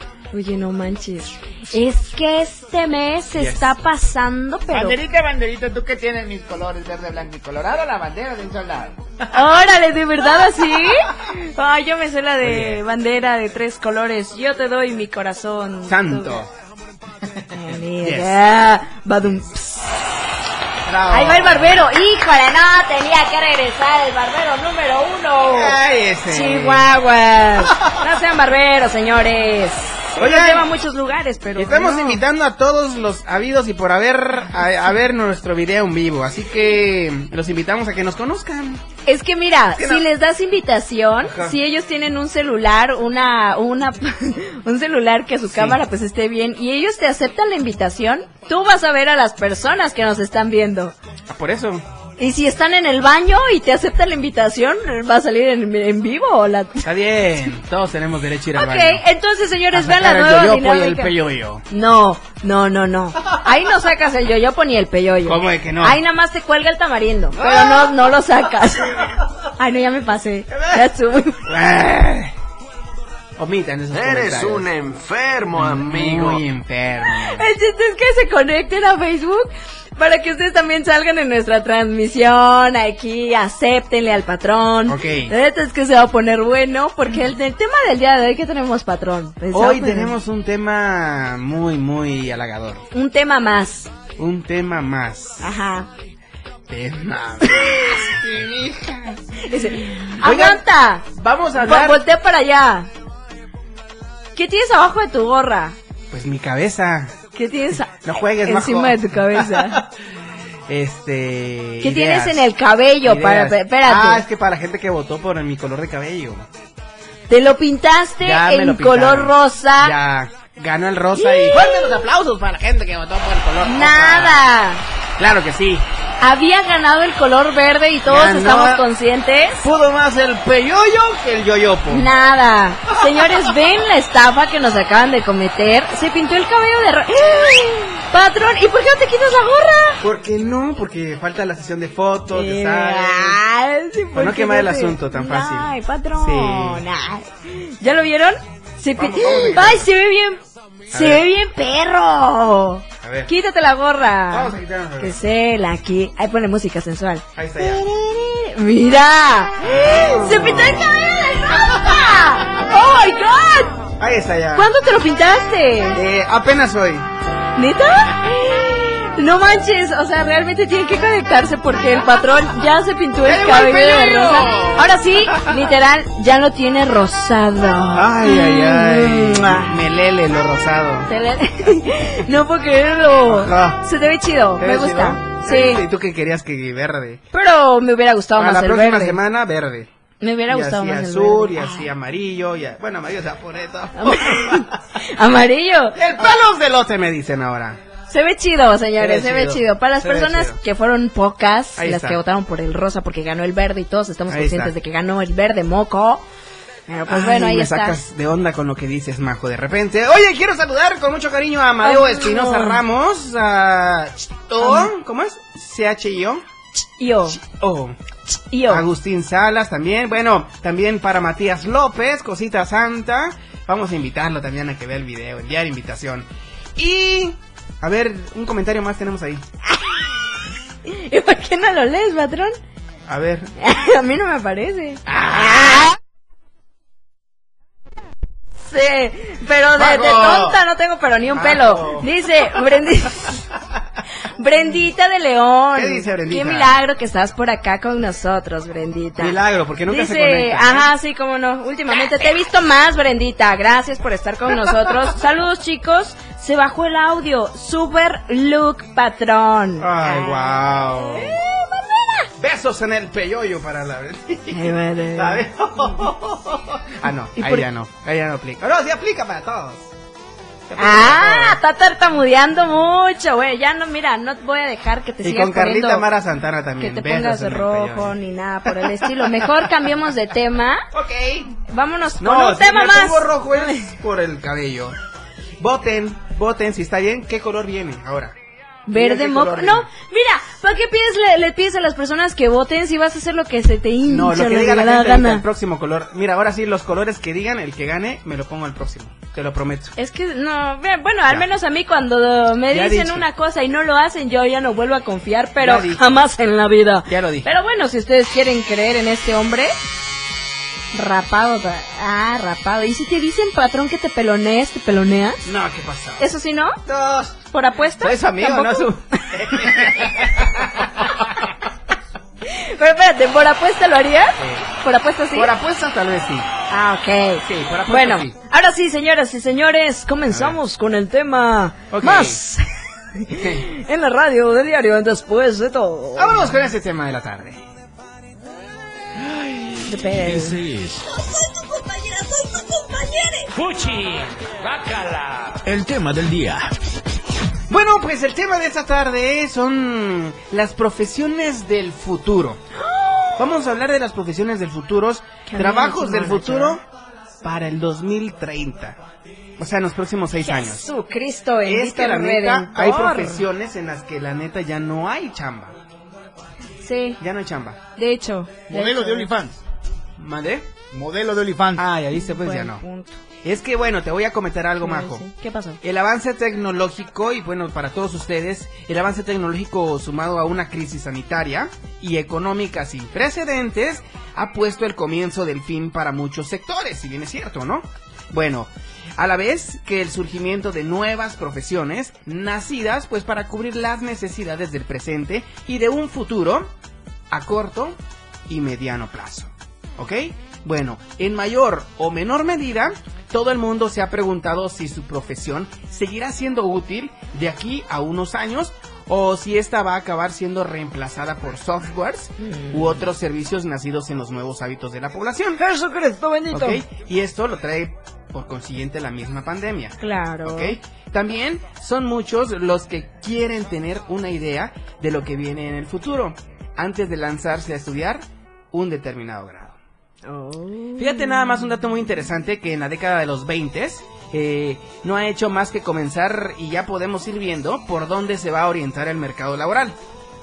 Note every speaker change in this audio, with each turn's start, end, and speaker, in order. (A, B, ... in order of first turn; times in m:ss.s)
0:00.3-0:05.0 A
0:03.3-0:03.8 B
0:04.7-0:09.0 C
0:09.3-0:16.4 A
0:12.4-0:12.8 B
0:15.8-0:16.5 B
0:17.5-0:20.0 A
0:18.0-0:18.4 B
0:20.8-0:21.9 B
0:21.1-0:32.2 A
0:25.4-0:26.9 B
0:27.6-0:28.0 B
0:30.2-0:30.7 B
0:31.6-0:38.8 B
0:39.0-0:50.9 A
0:39.7-0:40.0 B
0:41.2-0:41.6 B
0:45.5-0:45.8 B
0:51.3-0:51.8 B
0:52.2-0:56.9 A
0:56.8-0:59.0 B
0:58.5-1:01.1 A
0:59.7-1:01.6 B
1:01.7-1:11.5 A
1:05.2-1:06.0 B
1:07.3-1:08.1 B
1:10.5-1:10.9 B
1:11.4-1:12.3 B
1:13.4-1:14.7 B
1:13.9-1:16.4 D
1:15.5-1:17.5 B
1:17.0-1:30.2 A
1:24.9-1:25.3 B
1:29.5-1:32.8 B
1:32.9-1:33.9 A
1:34.2-1:35.6 B
1:35.4-1:35.9 A
1:36.7-1:39.2 B
1:37.4-1:38.0 A
1:39.4-1:42.9 A
1:40.2-1:42.0 B
1:44.3-1:45.8 A
1:46.1-1:47.1 B
1:47.3-1:49.8 A
1:48.0-1:49.9 B
1:50.7-1:52.5 B
1:51.8-1:54.2 A
1:53.0-1:56.5 B
1:57.3-2:00.0 A
1:58.2-2:04.4 B
2:01.1-2:02.0 A
2:03.6-2:04.8 A
2:05.2-2:05.8 B
2:06.2-2:09.7 A
2:08.1-2:08.8 B
2:09.6-2:12.1 B
2:11.9-2:20.0 A
2:12.9-2:13.5 B
2:20.0-2:23.4 B
2:22.3-2:43.8 A
2:24.1-2:26.8 B
2:29.0-2:29.9 B
2:30.9-2:31.2 B
2:33.0-2:33.3 B
2:34.3-2:35.2 B
2:37.4-2:37.8 B
2:39.6-2:40.9 B
2:41.6-2:42.5 B
2:44.0-2:44.7 B
2:44.5-2:46.0 A
2:45.9-2:47.1 B
2:47.6-2:59.8 A
2:53.2-2:55.6 B
2:57.9-3:01.1 B
3:01.1-3:05.8 A
3:03.2-3:03.8 B
3:04.6-3:07.2 B
3:07.3-3:09.2 A
3:08.4-3:09.9 B
3:10.2-3:11.9 A
3:10.5-3:14.8 B
3:14.0-3:16.1 A
3:16.0-3:17.8 B
3:18.1-3:26.2 A
3:19.0-3:20.6 B
3:21.8-3:22.2 B
3:24.3-3:24.7 B
3:26.9-3:28.0 A
3:27.1-3:36.4 B
3:31.8-3:32.8 A
3:34.6-3:34.9 A
3:37.0-3:37.4 A
3:37.3-3:38.0 B
3:38.5-3:38.8 A
3:38.7-3:49.4 B
3:50.8-3:52.6 A
3:53.1-3:53.5 B
3:53.6-3:55.9 A
3:55.1-3:55.9 B
3:58.6-4:03.4 A
3:59.7-4:00.6 B
4:01.3-4:02.1 B
4:04.3-4:22.3 A
4:05.7-4:06.8 B
4:09.2-4:10.9 B
4:19.8-4:21.4 B
4:22.4-4:29.9 B
4:24.5-4:26.0 A
4:27.4-4:27.6 A
4:30.7-4:31.6 B
4:30.8-4:36.0 A
4:35.2-4:39.7 B
4:36.8-4:40.8 A
4:40.9-4:41.5 B
4:41.7-4:43.9 A
4:42.2-4:44.9 B
4:45.6-4:48.3 B
4:48.9-4:55.4 A
4:48.9-4:49.9 B
4:54.1-4:59.9 B
5:00.0-5:09.7 A
5:02.7-5:03.3 B
5:05.6-5:06.2 B
5:07.1-5:07.5 B
5:10.9-5:15.5 A
5:15.4-5:16.3 B
5:16.2-5:16.8 A
5:16.8-5:17.4 B
5:17.5-5:20.2 A
5:18.0-5:21.2 B
5:22.5-5:25.5 A
5:24.4-5:24.6 B
5:25.3-5:26.5 B
5:26.7-5:36.5 A
5:27.4-5:28.3 B
5:30.3-5:30.6 B
5:31.9-5:32.4 B
5:33.3-5:33.7 B
5:36.2-5:37.6 B
5:39.2-5:39.9 B
5:39.8-5:40.6 A
5:40.1-5:41.2 E
5:41.6-5:43.5 A
5:43.6-5:46.7 E
5:47.7-5:52.6 B
5:52.8-5:53.5 A
5:53.4-5:56.8 B
5:55.5-5:56.8 A
5:57.4-5:59.0 B
5:59.6-6:00.9 B
6:00.4-6:03.4 A
6:01.6-6:05.8 B
6:06.8-6:07.2 A
6:07.2-6:07.8 B
6:08.0-6:09.3 A
6:08.7-6:09.6 C
6:10.2-6:10.7 B
6:10.9-6:11.8 C
6:11.8-6:12.8 B
6:12.1-6:13.2 A
6:13.4-6:15.2 B
6:14.8-6:15.8 A
6:15.8-6:36.7 B
6:37.3-6:38.0 B
6:38.5-6:55.6 B
6:52.4-6:53.0 A
6:55.6-6:56.8 A
6:56.5-7:09.8 B
7:00.0-7:00.8 A
7:10.2-7:11.6 A
7:11.0-7:20.0 B